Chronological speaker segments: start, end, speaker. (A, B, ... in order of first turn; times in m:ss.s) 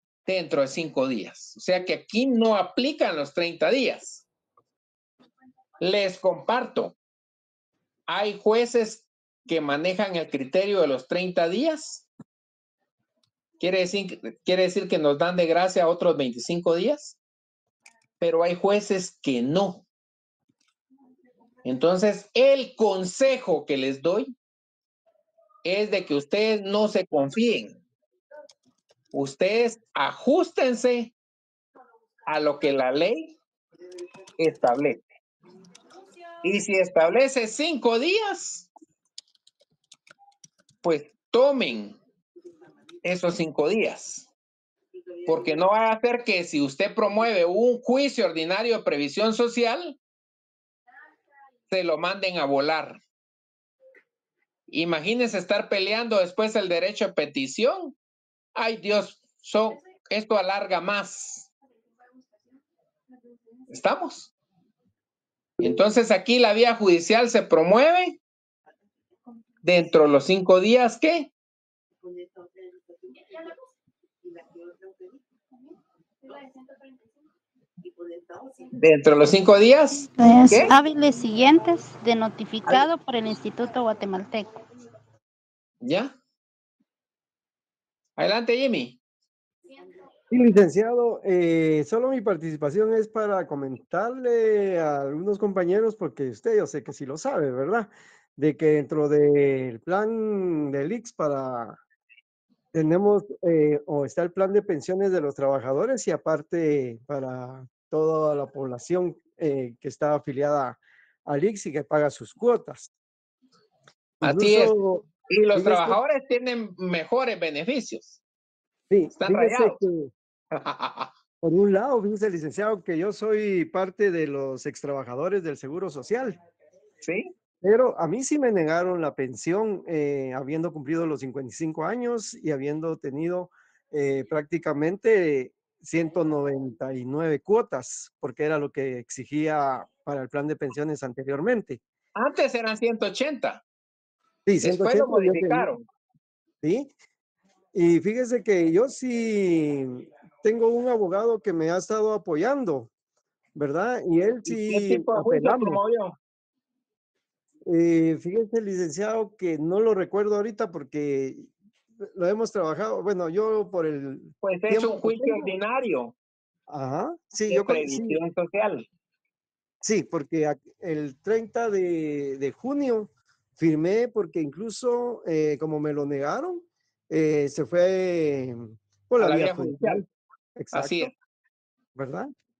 0:00.2-0:04.2 A
0:05.8-0:06.9 A
0:08.1-0:12.0 A
0:13.6-0:17.2 A
0:18.2-0:19.8 A
0:21.6-0:24.3 A
0:25.6-0:27.8 A
0:29.1-0:31.1 A
0:32.3-0:33.3 A
0:34.4-0:35.0 A
0:36.4-0:38.7 A
0:40.8-0:42.0 A
0:43.0-0:44.3 A
0:45.2-0:50.0 A
0:51.7-0:53.0 A
0:54.7-0:57.9 A
0:58.5-1:01.5 A
1:03.7-1:04.3 A
1:05.6-1:08.2 A
1:09.6-1:11.3 A
1:18.8-1:20.7 A
1:20.2-1:24.6 B
1:25.8-1:26.1 A
1:28.2-1:29.0 A
1:30.3-1:41.8 C
1:42.7-1:52.9 C
1:54.2-1:56.0 C
1:54.2-1:54.7 A
1:55.3-1:58.2 A
1:58.9-2:00.1 C
1:59.2-1:59.8 A
2:00.5-2:01.1 A
2:01.4-2:06.4 C
2:07.0-2:07.3 A
2:07.6-2:21.8 C
2:22.1-2:23.6 A
2:24.4-2:25.7 C
2:24.6-2:25.8 A
2:26.6-2:26.9 C
2:27.7-2:32.9 C
2:33.5-2:35.8 C
2:34.4-2:36.1 A
2:37.6-2:45.5 C
2:44.4-2:46.1 A
2:46.7-2:48.2 C
2:47.5-2:48.8 A
2:49.8-3:00.0 C
2:59.2-3:00.0 A
3:00.6-3:01.1 C
3:00.7-3:01.1 A
3:01.9-3:02.3 C